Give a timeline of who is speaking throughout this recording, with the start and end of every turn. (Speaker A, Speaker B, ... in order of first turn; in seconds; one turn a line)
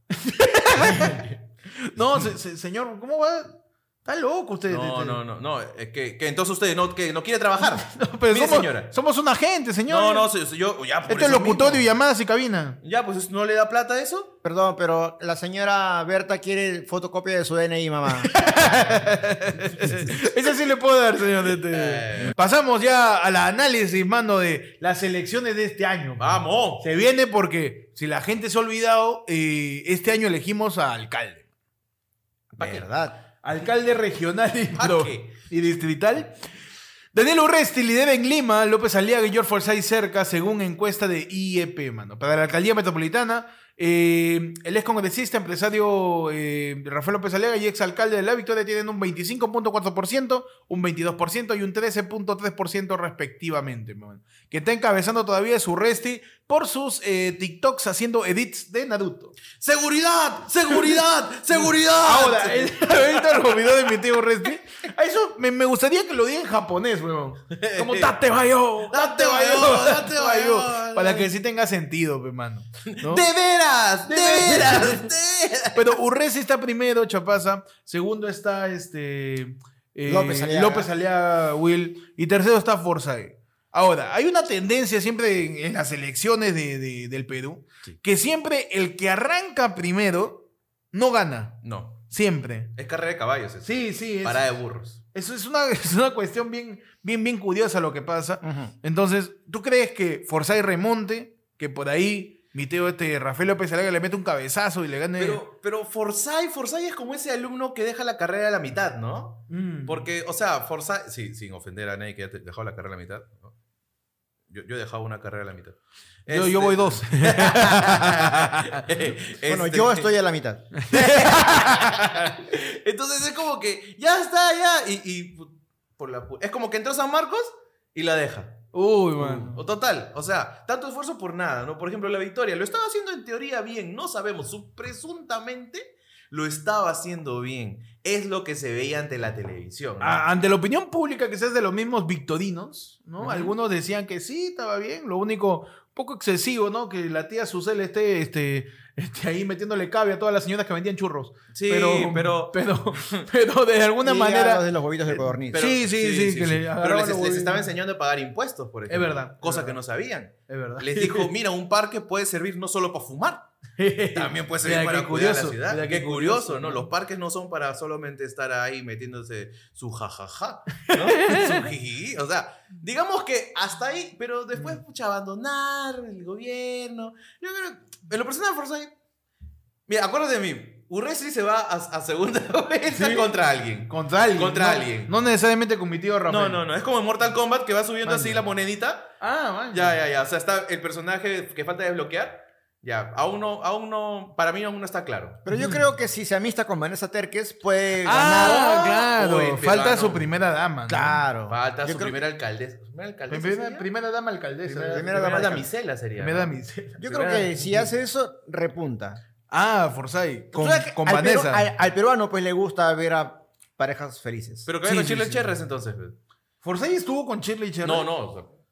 Speaker A: 0.1-5.2
Speaker B: 0.9-1.2
Speaker B: 4.7-8.9
Speaker A: 7.8-10.3
Speaker B: 9.9-11.8
Speaker A: 11.1-12.8
Speaker B: 12.8-14.3
Speaker C: 14.4-18.4
Speaker A: 18.2-31.4
Speaker B: 21.6-22.3
Speaker B: 26.2-26.8
Speaker C: 32.5-33.2
Speaker B: 32.6-32.9
Speaker A: 33.4-36.3
Speaker B: 34.7-35.3
Speaker A: 37.1-59.4
Speaker B: 59.5-63.9
Speaker A: 62.0-73.2
Speaker B: 67.5-68.1
Speaker B: 68.9-71.3
Speaker B: 72.8-75.9
Speaker A: 74.0-75.0
Speaker A: 75.7-91.6
Speaker C: 80.1-80.9
Speaker B: 91.6-92.0
Speaker A: 92.1-92.7
Speaker B: 92.8-95.0
Speaker A: 93.6-94.5
Speaker A: 95.1-105.4
Speaker C: 98.4-98.7
Speaker B: 105.2-113.5
Speaker A: 109.5-110.1
Speaker B: 114.5-120.1
Speaker A: 116.3-118.8
Speaker C: 119.5-120.8
Speaker A: 120.7-122.3
Speaker B: 120.9-128.6
Speaker A: 128.7-129.6
Speaker B: 129.2-140.2
Speaker A: 140.0-154.7
Speaker B: 143.2-143.5
Speaker B: 151.5-153.3
Speaker C: 154.0-155.7
Speaker B: 155.4-163.4
Speaker A: 155.5-157.7
Speaker A: 158.9-159.8
Speaker A: 160.5-161.3
Speaker A: 163.8-166.9
Speaker B: 164.1-178.9
Speaker A: 170.8-171.7
Speaker B: 179.9-185.1
Speaker A: 182.9-183.3
Speaker A: 183.9-186.6
Speaker B: 186.3-189.1
Speaker A: 188.1-188.4
Speaker A: 189.2-189.9
Speaker B: 189.7-195.4
Speaker C: 195.4-199.1
Speaker A: 195.5-195.8
Speaker A: 198.0-201.2
Speaker B: 198.2-200.3
Speaker C: 200.9-202.2
Speaker B: 201.5-203.9
Speaker A: 203.3-205.6
Speaker B: 204.6-207.9
Speaker C: 204.9-205.7
Speaker A: 206.2-207.4
Speaker C: 207.0-209.2
Speaker A: 209.5-211.7
Speaker C: 210.5-214.7
Speaker B: 214.7-216.2
Speaker A: 214.8-215.5
Speaker A: 216.6-218.1
Speaker B: 217.8-218.5